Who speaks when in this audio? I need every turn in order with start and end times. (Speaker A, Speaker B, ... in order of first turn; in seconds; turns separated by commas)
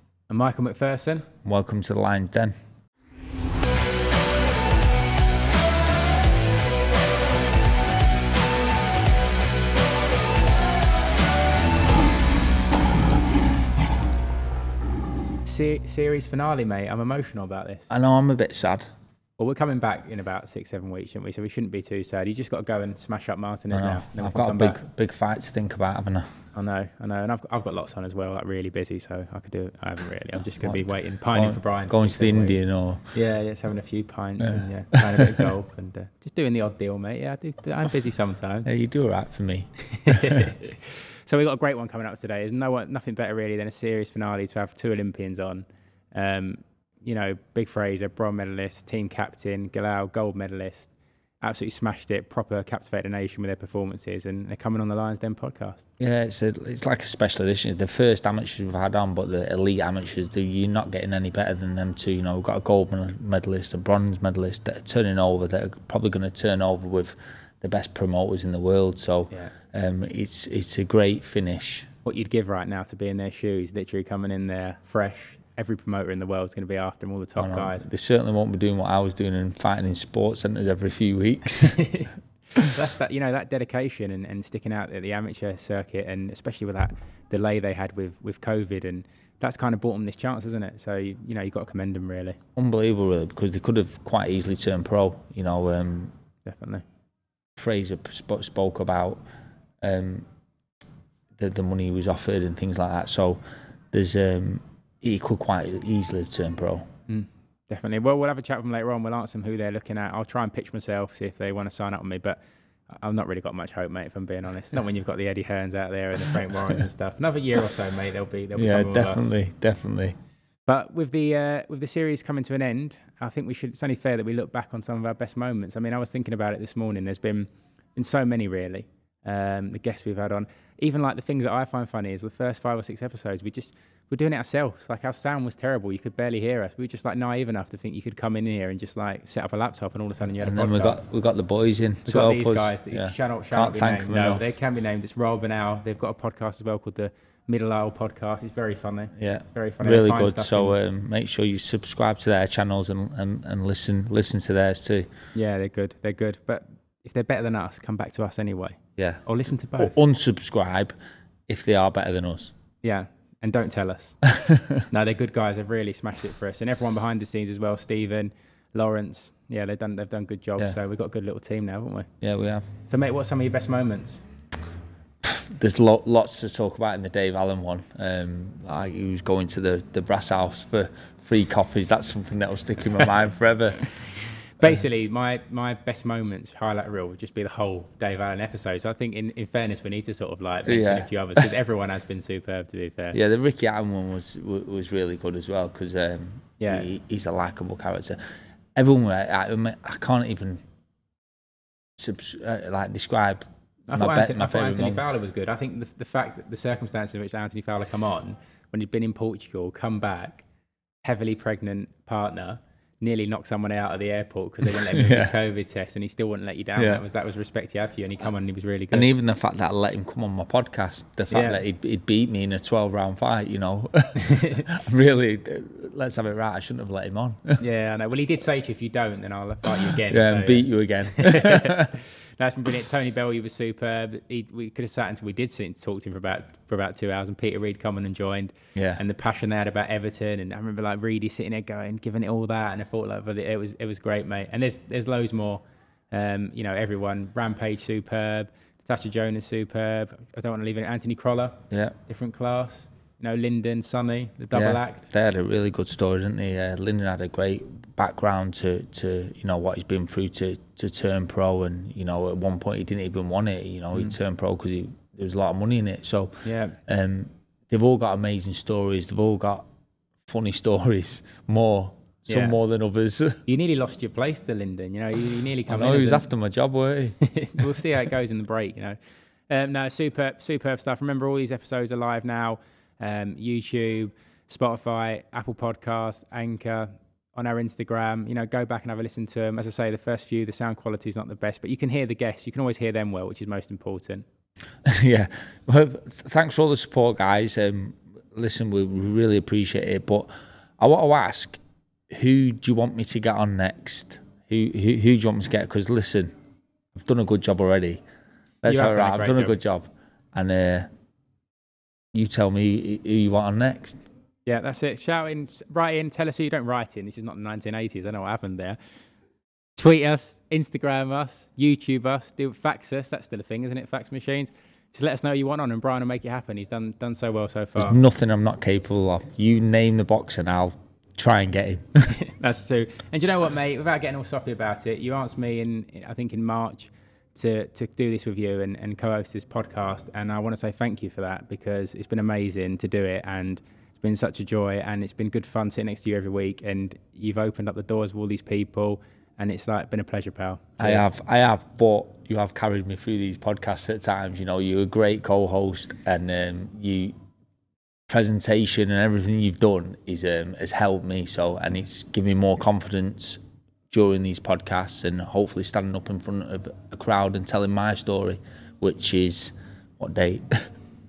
Speaker A: 0.3-1.2, Speaker B: 1.4-2.5, Speaker A: 15.4-17.9, Speaker B: 17.9-18.9, Speaker A: 19.4-24.8, Speaker B: 23.7-26.3, Speaker A: 26.6-32.6, Speaker B: 30.6-33.0, Speaker A: 33.1-38.7, Speaker B: 35.1-35.5, Speaker B: 38.7-40.5, Speaker A: 39.9-55.9, Speaker B: 56.0-71.9, Speaker A: 72.0-77.9, Speaker B: 77.4-81.8, Speaker A: 81.7-92.4, Speaker B: 92.6-96.1, Speaker A: 96.4-96.8, Speaker B: 97.6-99.2, Speaker B: 99.8-100.2, Speaker B: 101.4-106.9, Speaker A: 107.1-112.4, Speaker A: 112.9-119.3, Speaker B: 118.6-120.2, Speaker A: 120.7-141.1, Speaker B: 140.4-144.4, Speaker A: 142.1-150.8, Speaker B: 149.2-155.1, Speaker A: 155.3-159.9, Speaker B: 159.0-159.2, Speaker B: 159.8-160.9, Speaker B: 161.5-162.5, Speaker A: 162.8-164.2, Speaker B: 164.4-164.8, Speaker A: 164.9-172.1, Speaker B: 172.2-172.7, Speaker A: 172.9-174.2, Speaker B: 175.2-183.9, Speaker A: 184.6-193.2, Speaker B: 190.7-191.1, Speaker B: 193.1-198.2, Speaker A: 196.6-196.9, Speaker B: 198.8-200.6, Speaker B: 202.0-205.0, Speaker A: 203.9-210.4, Speaker A: 211.0-219.1, Speaker B: 214.7-215.3, Speaker B: 216.8-217.0, Speaker B: 218.9-227.6, Speaker A: 221.3-221.6, Speaker A: 224.2-224.6, Speaker A: 227.6-255.1, Speaker B: 230.1-231.9, Speaker B: 238.8-239.0, Speaker B: 254.5-269.6, Speaker A: 266.4-266.8, Speaker B: 270.2-273.4, Speaker A: 272.3-272.6, Speaker A: 273.5-276.3, Speaker B: 275.7-277.2, Speaker A: 277.3-279.0, Speaker A: 279.5-294.2, Speaker B: 294.9-301.6, Speaker B: 302.1-306.3, Speaker B: 306.9-308.0, Speaker B: 308.6-310.9, Speaker A: 308.6-309.5, Speaker B: 312.1-314.0, Speaker A: 314.4-318.8, Speaker A: 319.8-328.0, Speaker B: 327.8-331.9, Speaker A: 332.2-351.1, Speaker B: 350.8-357.1, Speaker B: 358.1-370.6